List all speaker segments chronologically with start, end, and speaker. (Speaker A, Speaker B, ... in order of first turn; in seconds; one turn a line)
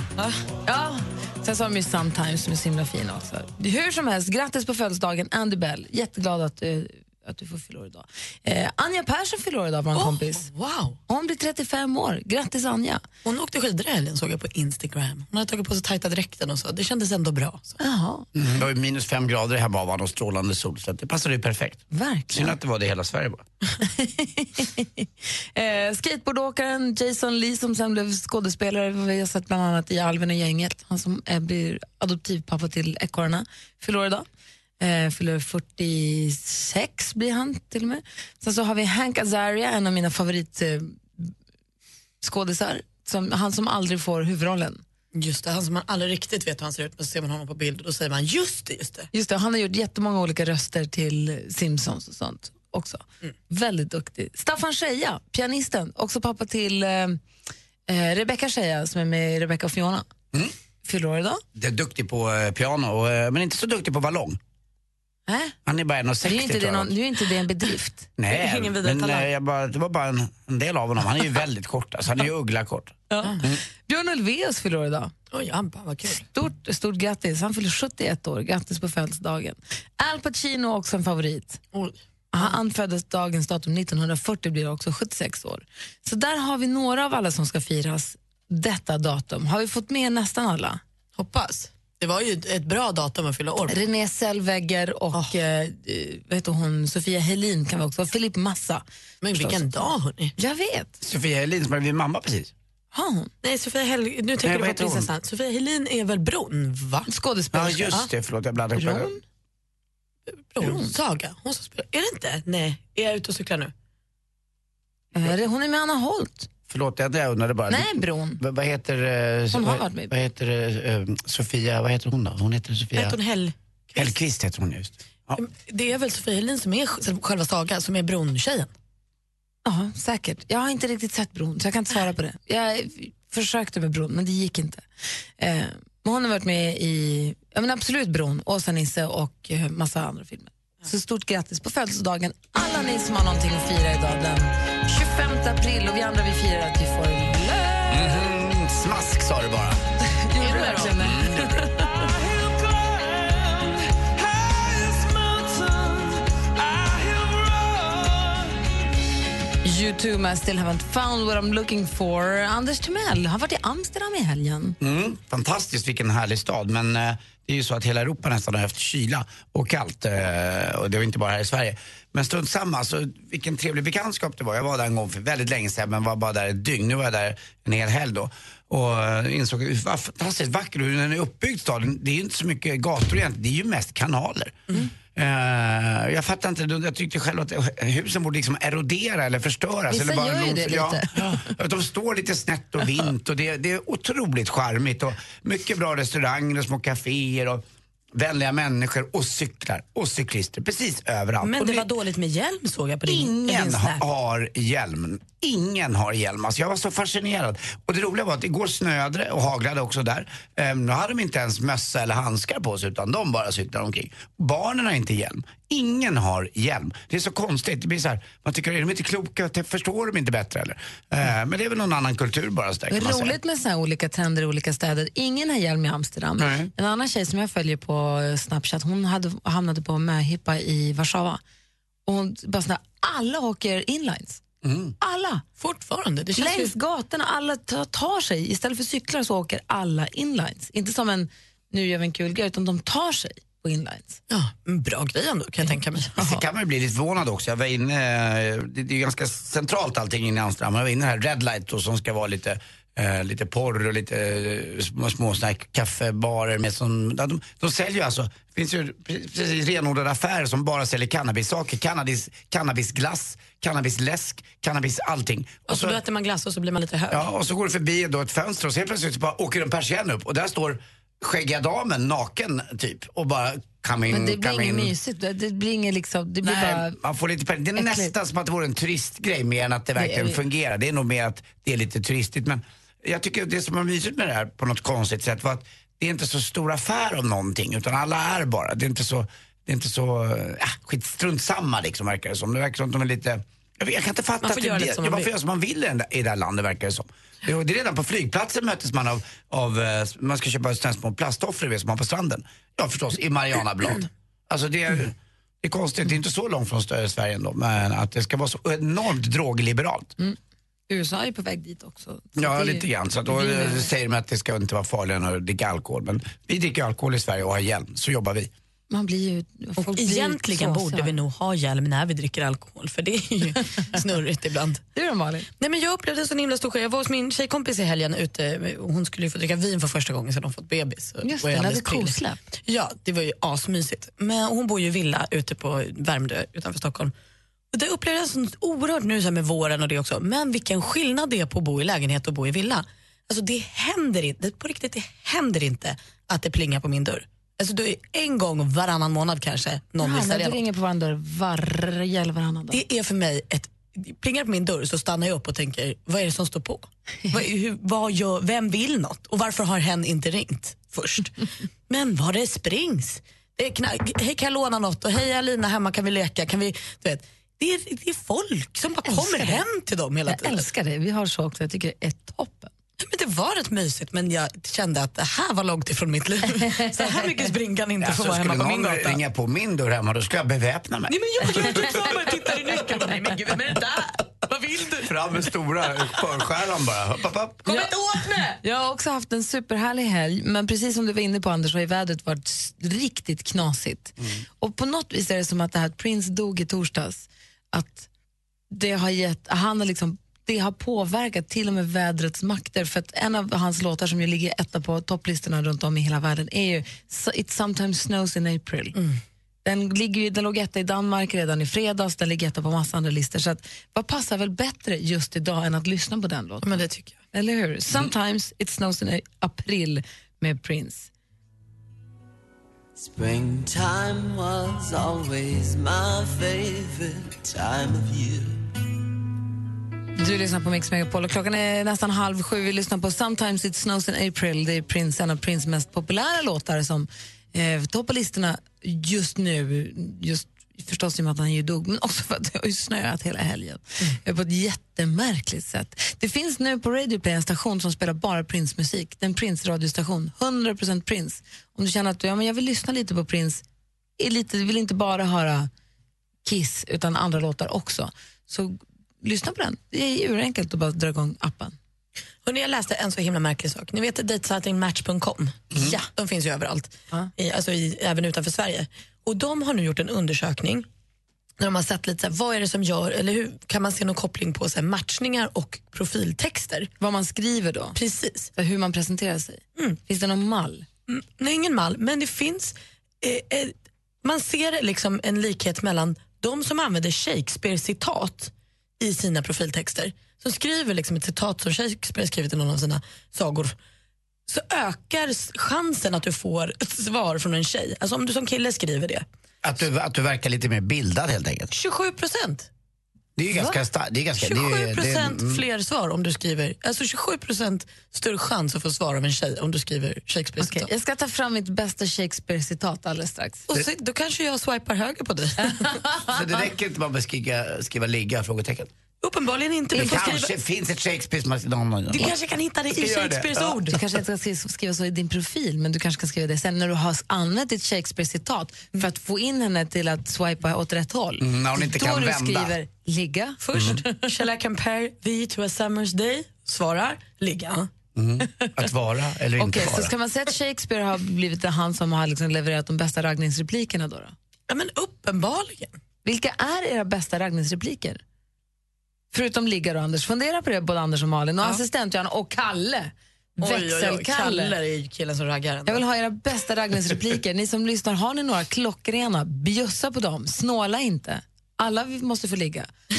Speaker A: 0.7-10.5
Speaker B: 9.9-11.0
Speaker A: 11.1-13.1
Speaker B: 13.2-17.8
Speaker A: 17.8-18.2
Speaker C: 18.4-23.4
Speaker A: 21.9-22.6
Speaker A: 23.8-34.3
Speaker A: 34.8-41.3
Speaker A: 42.2-44.8
Speaker B: 45.1-49.1
Speaker A: 49.1-57.2
Speaker A: 57.9-60.1
Speaker A: 60.8-61.4
Speaker C: 61.5-64.4
Speaker A: 65.3-65.5
Speaker C: 65.7-66.9
Speaker A: 66.2-68.1
Speaker C: 68.2-73.6
Speaker B: 68.3-69.3
Speaker A: 73.1-75.1
Speaker B: 75.3-76.3
Speaker A: 76.2-81.6
Speaker B: 81.7-82.5
Speaker A: 82.3-90.8
Speaker B: 91.2-93.8
Speaker A: 93.7-98.8
Speaker B: 99.2-100.3
Speaker A: 99.4-101.0
Speaker C: 101.0-102.5
Speaker A: 102.9-103.3
Speaker B: 103.4-107.1
Speaker C: 104.5-105.1
Speaker A: 107.1-108.1
Speaker C: 107.5-109.1
Speaker A: 108.8-109.2
Speaker B: 110.3-113.7
Speaker A: 110.6-110.9
Speaker A: 115.2-116.5
Speaker C: 116.7-123.2
Speaker A: 117.7-118.4
Speaker A: 119.5-120.1
Speaker B: 123.0-124.1
Speaker C: 124.0-125.4
Speaker B: 125.4-128.7
Speaker A: 129.7-134.8
Speaker A: 135.4-148.2
Speaker C: 147.9-149.8
Speaker A: 150.1-151.8
Speaker B: 150.4-151.2
Speaker C: 151.0-151.5
Speaker D: 152.2-153.7
Speaker D: 154.2-158.3
Speaker A: 159.7-164.8
Speaker C: 164.8-197.6
Speaker A: 189.9-191.1
Speaker C: 198.2-201.9
Speaker B: 201.4-204.0
Speaker C: 203.1-223.4
Speaker A: 222.9-231.4
Speaker C: 226.4-226.7
Speaker A: 232.1-234.4
Speaker C: 234.6-234.9
Speaker A: 235.0-235.4
Speaker B: 235.6-236.7
Speaker A: 236.4-244.2
Speaker B: 244.3-246.2
Speaker C: 246.2-266.0
Speaker B: 265.7-267.3
Speaker C: 267.1-274.9
Speaker A: 274.1-277.0
Speaker C: 276.4-310.1
Speaker A: 277.8-278.1
Speaker A: 280.0-280.4
Speaker B: 294.4-295.3
Speaker A: 310.9-313.9
Speaker C: 312.4-318.5
Speaker A: 318.9-321.1
Speaker B: 319.8-324.8
Speaker A: 324.9-325.5
Speaker B: 325.6-337.1
Speaker A: 331.2-332.4
Speaker B: 337.7-350.6
Speaker A: 350.0-352.8
Speaker B: 352.7-370.7
Speaker A: 369.1-369.6
Speaker A: 370.3-372.7
Speaker B: 373.0-379.2
Speaker A: 376.6-377.2
Speaker C: 378.0-381.8
Speaker B: 381.1-385.1
Speaker C: 385.0-387.6
Speaker B: 387.6-388.6
Speaker A: 388.6-398.1
Speaker A: 398.7-408.9
Speaker B: 408.9-409.2
Speaker A: 409.6-416.8
Speaker B: 416.6-417.2
Speaker A: 417.3-421.1
Speaker D: 423.0-428.6
Speaker A: 430.2-453.6
Speaker A: 454.2-455.7
Speaker A: 456.4-461.8
Speaker B: 462.4-470.9
Speaker B: 471.6-476.9
Speaker A: 477.0-478.0
Speaker B: 477.9-478.5
Speaker A: 478.6-480.9
Speaker B: 481.1-493.8
Speaker B: 494.5-499.3
Speaker C: 499.6-501.7
Speaker B: 501.7-502.7
Speaker C: 503.4-505.6
Speaker B: 504.4-510.9
Speaker A: 510.6-513.7
Speaker B: 513.7-515.9
Speaker A: 515.6-516.3
Speaker C: 516.3-518.9
Speaker B: 519.2-520.5
Speaker C: 519.9-522.3
Speaker B: 522.1-524.0
Speaker C: 523.0-523.7
Speaker A: 523.9-533.6
Speaker C: 531.4-532.8
Speaker B: 533.6-537.9
Speaker C: 533.7-534.0
Speaker C: 538.2-540.1
Speaker A: 539.6-544.3
Speaker B: 544.7-546.0
Speaker A: 546.2-548.2
Speaker A: 549.3-554.7
Speaker B: 553.6-556.0
Speaker A: 555.9-562.9